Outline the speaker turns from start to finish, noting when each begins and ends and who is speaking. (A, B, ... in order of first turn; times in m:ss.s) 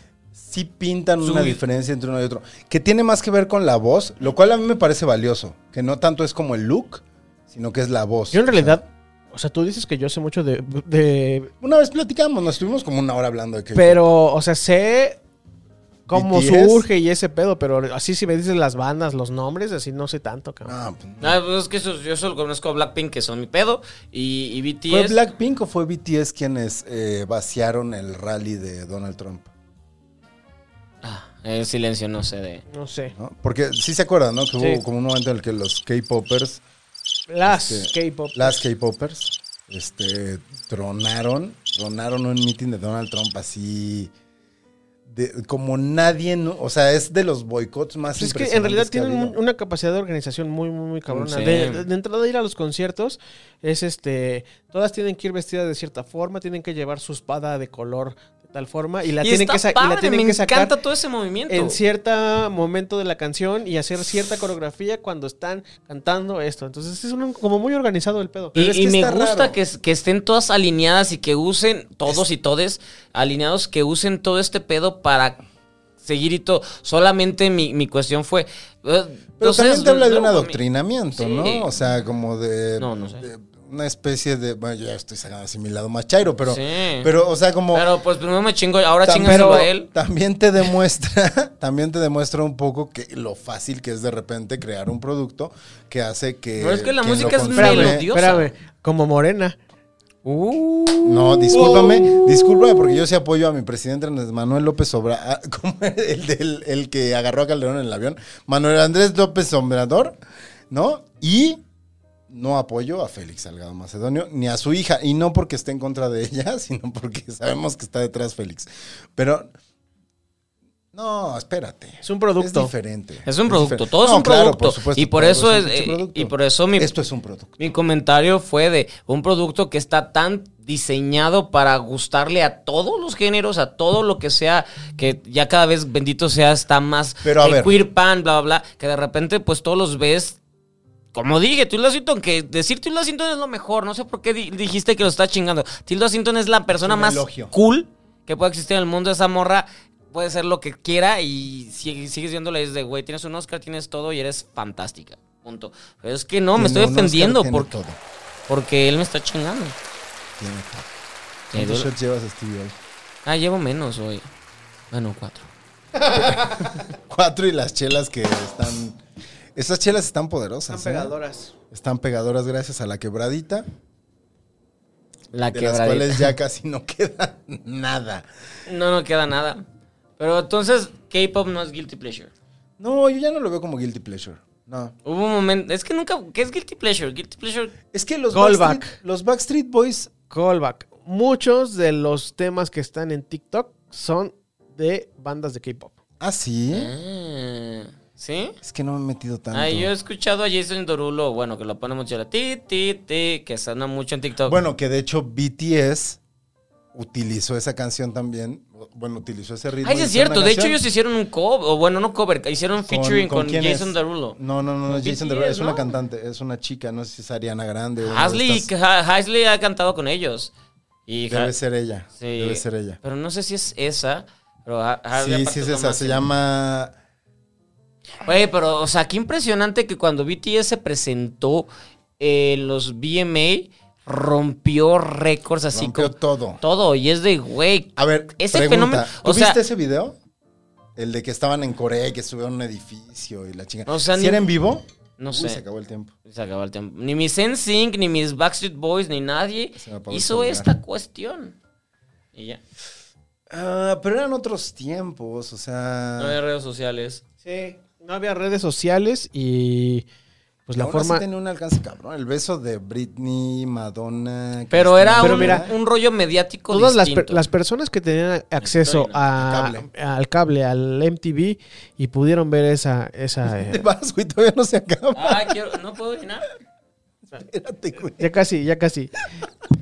0:00.3-0:08.8 A
0:01.2-0:01.6 B
0:08.3-0:11.5 C
0:11.6-0:14.0 A
0:13.7-0:15.2 C
0:16.1-0:20.8 C
0:16.1-0:16.8 A
0:20.6-0:21.4 A
0:21.2-0:25.2 B
0:24.9-0:29.5 A
0:31.0-0:32.6 B
0:32.7-0:33.1 C
0:33.1-0:36.6 A
0:37.3-0:38.6 C
0:37.4-0:44.1 A
0:45.1-0:49.4 A
0:48.1-1:00.7 C
0:51.1-0:51.8 B
0:59.2-1:01.8 B
1:01.5-1:08.6 C
1:08.5-1:09.6 A
1:08.5-1:15.4 B
1:16.0-1:20.6 B
1:19.4-1:27.8 A
1:21.2-1:21.7 B
1:22.8-1:23.2 B
1:26.4-1:27.1 B
1:27.7-1:29.9 B
1:29.0-1:38.1 A
1:29.2-1:29.7 C
1:36.6-1:38.5 B
1:37.5-1:39.6 C
1:40.2-1:42.9 C
1:41.0-1:50.2 A
1:50.7-1:51.6 A
1:52.3-1:59.5 A
2:00.9-2:07.5 A
2:02.0-2:02.7 C
2:03.2-2:06.9 B
2:07.6-2:20.4 B
2:17.2-2:17.8 A
2:21.1-2:37.7 B
2:26.8-2:27.5 A
2:36.5-2:38.0 A
2:38.5-2:39.8 B
2:40.4-2:40.9 A
2:41.5-2:41.9 B
2:41.5-2:42.8 A
2:43.2-2:44.3 B
2:44.9-2:45.5 B
2:46.0-2:46.7 C
2:46.1-2:49.0 A
2:49.5-2:51.1 A
2:50.7-2:51.5 C
2:51.7-2:53.6 A
2:55.3-2:56.3 B
2:55.5-2:58.2 A
2:58.7-2:59.6 B
3:00.2-3:02.3 B
3:02.8-3:04.9 A
3:05.0-3:07.8 B
3:07.9-3:10.1 A
3:08.3-3:09.0 C
3:10.3-3:16.0 C
3:16.2-3:16.9 A
3:16.7-3:18.5 B
3:18.6-3:19.9 A
3:19.5-3:24.6 B
3:24.5-3:26.2 A
3:26.9-3:30.8 A
3:29.8-3:34.4 B
3:32.8-3:38.7 A
3:34.9-3:35.8 B
3:38.0-3:40.5 B
3:41.1-3:41.5 B
3:41.3-3:43.0 A
3:42.2-3:46.2 B
3:45.1-3:46.9 A
3:48.2-3:51.7 B
3:52.2-3:59.6 B
3:55.7-3:56.6 A
3:58.0-4:00.2 A
4:01.0-4:06.1 A
4:03.9-4:04.5 B
4:05.2-4:05.6 B
4:06.2-4:11.5 B
4:09.8-4:10.7 A
4:12.3-4:12.6 B
4:13.5-4:16.4 A
4:16.2-4:17.2 B
4:17.4-4:20.0 C
4:20.6-4:21.2 C
4:20.8-4:25.7 A
4:24.7-4:27.4 B
4:25.2-4:25.6 C
4:26.7-4:33.8 C
4:28.6-4:29.2 B
4:29.4-4:29.9 A
4:33.4-4:35.5 A
4:35.1-4:36.5 B
4:37.3-4:38.3 A
4:38.2-4:39.1 C